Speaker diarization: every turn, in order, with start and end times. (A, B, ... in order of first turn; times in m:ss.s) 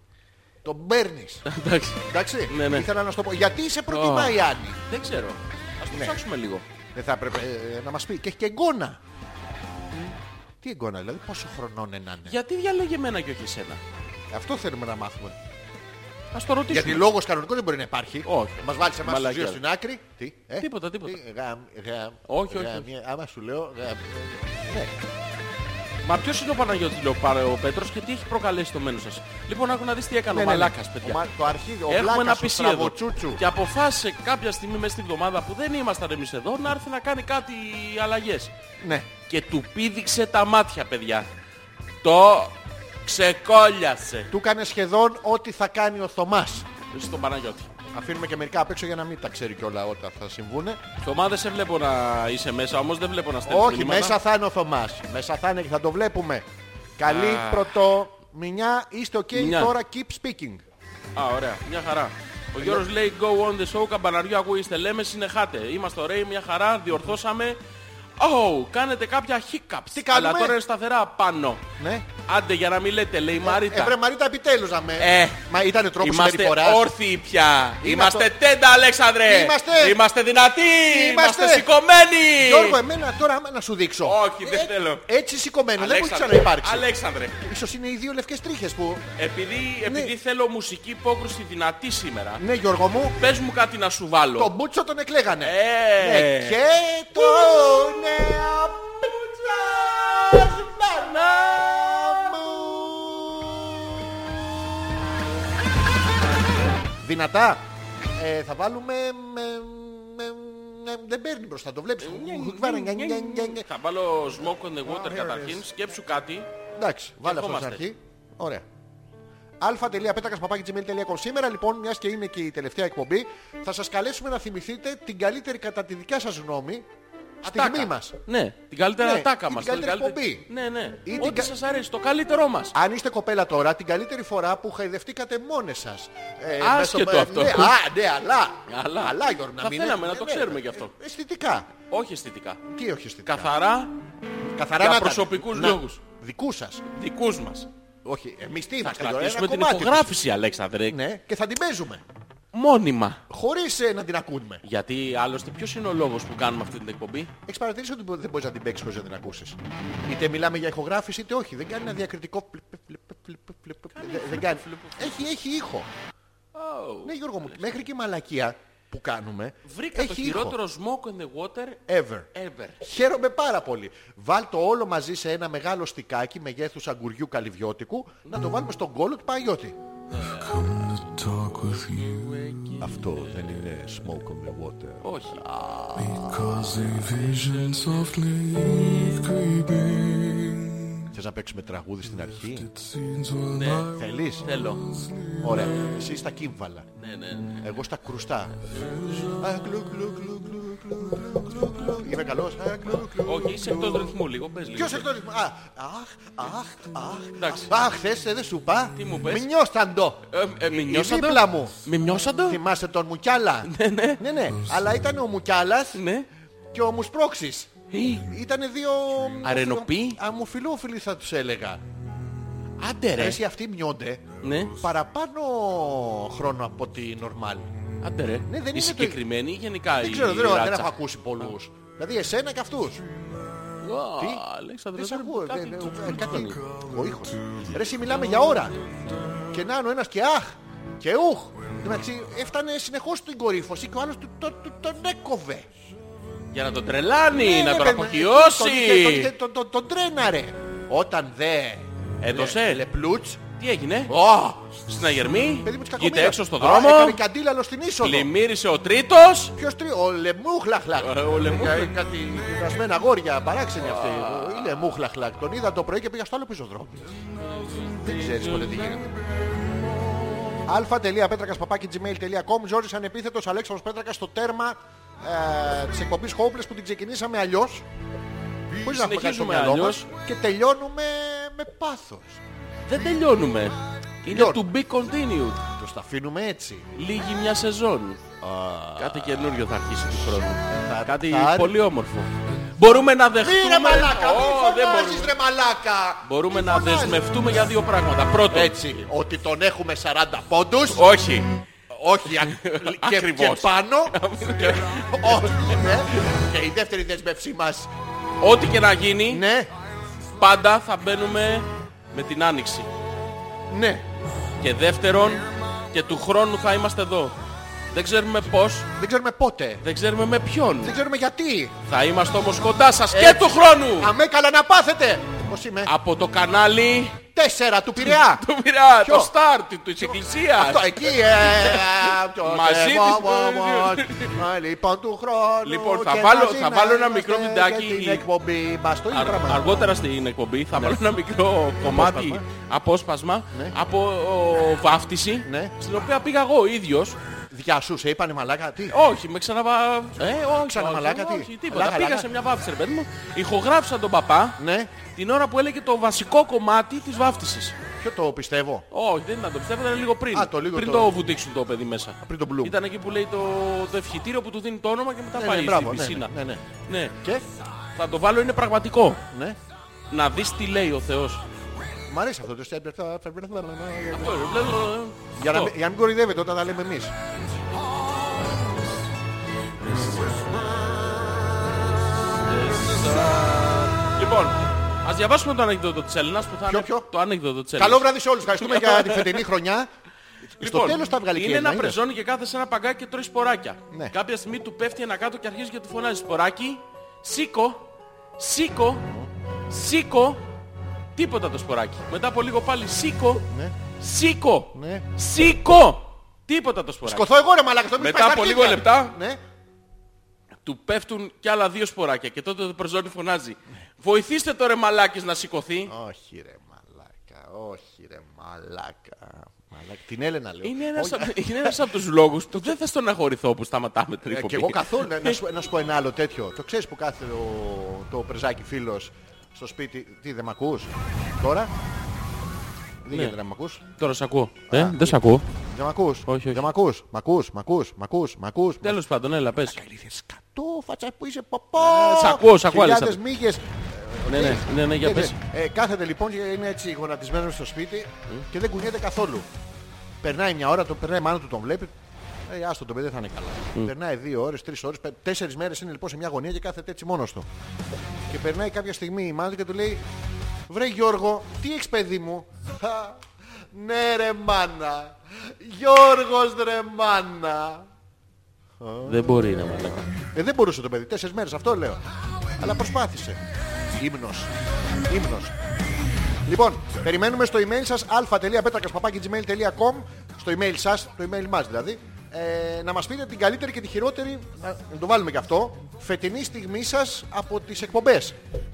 0:00.6-0:01.4 A
0:01.4-0:02.9 B
0:02.1-0:04.8 A
0:03.9-0:06.6 B
0:05.9-0:06.2 A
0:06.9-0:09.0 A
0:09.9-0:12.4 A
0:12.2-0:13.8 B
0:14.3-0:15.4 A
0:16.3-0:17.0 B
0:16.7-0:25.0 A
0:18.2-0:19.6 B
0:20.6-0:21.2 B
0:22.3-0:22.9 B
0:26.0-0:31.2 B
0:30.3-0:33.4 A
0:31.9-0:38.5 B
0:38.8-0:39.1 A
0:39.3-0:41.3 B
0:42.0-0:44.3 B
0:44.3-0:46.6 A
0:46.9-0:47.7 B
0:47.9-0:50.8 A
0:51.0-0:54.2 B
0:53.4-0:56.4 A
0:57.0-1:00.6 A
0:57.0-0:57.7 B
0:59.3-0:59.7 B
1:01.2-1:07.6 B
1:02.6-1:02.8 A
1:08.2-1:11.6 B
1:09.9-1:10.6 A
1:11.8-1:12.1 A
1:12.2-1:14.0 B
1:13.4-1:16.9 A
1:15.0-1:15.4 B
1:16.0-1:22.8 B
1:17.8-1:18.3 A
1:19.2-1:20.0 A
1:20.8-1:21.7 A
1:22.4-1:26.9 A
1:24.0-1:25.0 B
1:25.8-1:27.4 B
1:27.4-1:29.1 A
1:29.2-1:32.4 B
1:29.8-1:30.1 A
1:32.4-1:33.2 A
1:33.2-1:34.5 B
1:34.4-1:44.0 A
1:35.4-1:36.6 B
1:37.2-1:37.6 B
1:47.0-1:47.6 A
1:48.2-1:53.6 A
1:52.0-1:56.5 B
1:54.7-1:55.7 A
1:56.8-1:58.6 A
1:57.2-1:57.8 B
1:59.6-2:06.8 A
2:07.4-2:08.2 A
2:07.4-2:12.7 B
2:09.0-2:10.5 A
2:11.0-2:11.5 A
2:12.7-2:21.7 A
2:16.6-2:17.7 B
2:18.7-2:20.9 B
2:21.9-2:22.6 B
2:22.7-2:23.5 A
2:23.2-2:23.9 B
2:24.4-2:26.8 A
2:24.8-2:26.0 B
2:26.9-2:27.7 B
2:28.0-2:30.1 A
2:28.8-2:31.0 B
2:30.9-2:32.0 A
2:32.5-2:33.2 B
2:33.3-2:34.6 A
2:34.6-2:37.3 B
2:37.4-2:45.9 A
2:43.9-2:45.3 B
2:46.5-2:47.8 B
2:47.0-2:50.6 A
2:49.6-2:51.8 B
2:51.9-2:52.3 A
2:52.3-2:52.8 B
2:52.8-2:59.8 A
3:00.1-3:00.9 B
3:00.2-3:02.5 C
3:01.8-3:03.6 B
3:02.8-3:06.1 A
3:05.0-3:05.5 B
3:06.0-3:11.1 C
3:11.1-3:12.7 A
3:12.5-3:14.0 C
3:13.5-3:13.9 B
3:13.9-3:14.5 A
3:14.4-3:14.8 B
3:14.8-3:15.9 C
3:15.4-3:16.9 A
3:17.0-3:17.6 B
3:17.6-3:18.6 A
3:18.9-3:19.4 C
3:19.4-3:24.1 A
3:23.2-3:25.1 B
3:24.7-3:31.7 A
3:27.4-3:27.7 B
3:29.0-3:29.5 B
3:30.3-3:32.6 B
3:32.5-3:36.0 A
3:33.6-3:34.2 B
3:35.9-3:36.3 B
3:36.7-3:41.8 A
3:37.9-3:38.3 B
3:39.4-3:40.2 B
3:42.8-3:43.4 B
3:43.1-3:47.7 A
3:44.4-3:44.8 B
3:48.0-3:50.9 B
3:48.5-3:49.2 A
3:50.0-3:53.0 A
3:53.8-3:56.6 B
3:54.2-3:54.4 A
3:54.9-3:58.8 A
3:56.7-3:56.9 C
3:59.5-4:05.7 A
4:06.5-4:09.3 B
4:07.3-4:13.4 A
4:12.2-4:12.8 B
4:13.6-4:14.1 B
4:14.1-4:14.8 A
4:14.8-4:17.2 B
4:15.6-4:18.3 A
4:18.0-4:19.5 B
4:19.6-4:27.1 A
4:21.0-4:21.9 B
4:23.8-4:24.8 B
4:27.4-4:28.9 B
4:28.0-4:29.1 A
4:30.6-4:37.8 A
4:38.8-4:40.1 B
4:38.8-4:42.4 A
4:42.8-4:45.6 B
4:44.2-4:44.6 A
4:45.7-4:46.9 A
4:46.9-4:48.2 B
4:48.4-4:49.6 A
4:49.0-4:55.3 B
4:50.3-4:51.7 A
4:53.4-4:57.4 A
4:56.2-4:59.0 B
4:58.5-5:01.0 A
5:00.9-5:01.5 B
5:01.9-5:07.9 A
5:02.3-5:06.3 B
5:08.4-5:09.4 B
5:09.3-5:09.7 A
5:10.4-5:12.9 B
5:13.7-5:14.0 A
5:14.6-5:17.3 B
5:17.9-5:18.9 B
5:18.9-5:19.8 A
5:19.8-5:21.0 B
5:20.8-5:21.8 A
5:21.9-5:24.1 B
5:23.1-5:25.9 A
5:25.8-5:27.2 B
5:27.3-5:28.4 A
5:28.0-5:34.4 B
5:29.0-5:29.3 A
5:30.0-5:39.8 A
5:35.6-5:38.2 B
5:39.1-5:47.2 B
5:40.7-5:41.0 A
5:41.8-5:42.4 A
5:45.4-5:45.7 A
5:47.5-5:49.0 A
5:48.9-5:54.6 B
5:50.2-5:52.3 A
5:54.6-5:54.9 A
5:55.1-5:57.7 B
5:58.0-5:58.8 A
5:58.9-6:06.3 B
6:00.3-6:01.2 A
6:02.2-6:02.8 A
6:05.3-6:06.6 A
6:06.8-6:07.1 B
6:07.2-6:07.4 A
6:08.0-6:09.2 B
6:09.3-6:09.6 A
6:10.1-6:11.4 B
6:12.1-6:14.5 A
6:14.1-6:15.7 B
6:15.4-6:17.1 A
6:19.8-6:20.4 B
6:20.5-6:21.4 A
6:22.3-6:29.4 B
6:23.3-6:23.7 A
6:26.6-6:27.1 A
6:27.8-6:29.9 A
6:30.6-6:32.0 A
6:30.6-6:39.0 B
6:39.7-6:40.4 B
6:41.1-6:43.4 B
6:43.5-6:43.7 A
6:44.0-6:47.3 B
6:44.7-6:45.1 A
6:47.0-6:49.4 A
6:48.0-6:49.2 B
6:50.6-6:55.9 B
6:55.8-7:01.8 A
7:00.6-7:05.4 B
7:04.2-7:11.7 A
7:13.0-7:13.8 A
7:14.0-7:15.4 B
7:14.7-7:19.0 A
7:16.2-7:16.7 B
7:18.8-7:19.8 B
7:19.6-7:29.5 A
7:21.8-7:23.2 B
7:24.3-7:25.4 B
7:30.2-7:31.9 A
7:32.4-7:37.5 A
7:38.3-7:40.0 A
7:40.7-7:47.9 A
7:48.8-7:49.5 A
7:49.0-7:50.1 B
7:50.3-7:52.0 A
7:52.6-7:53.4 A
7:53.9-7:54.5 A
7:55.1-7:55.5 A
7:56.4-8:08.4 A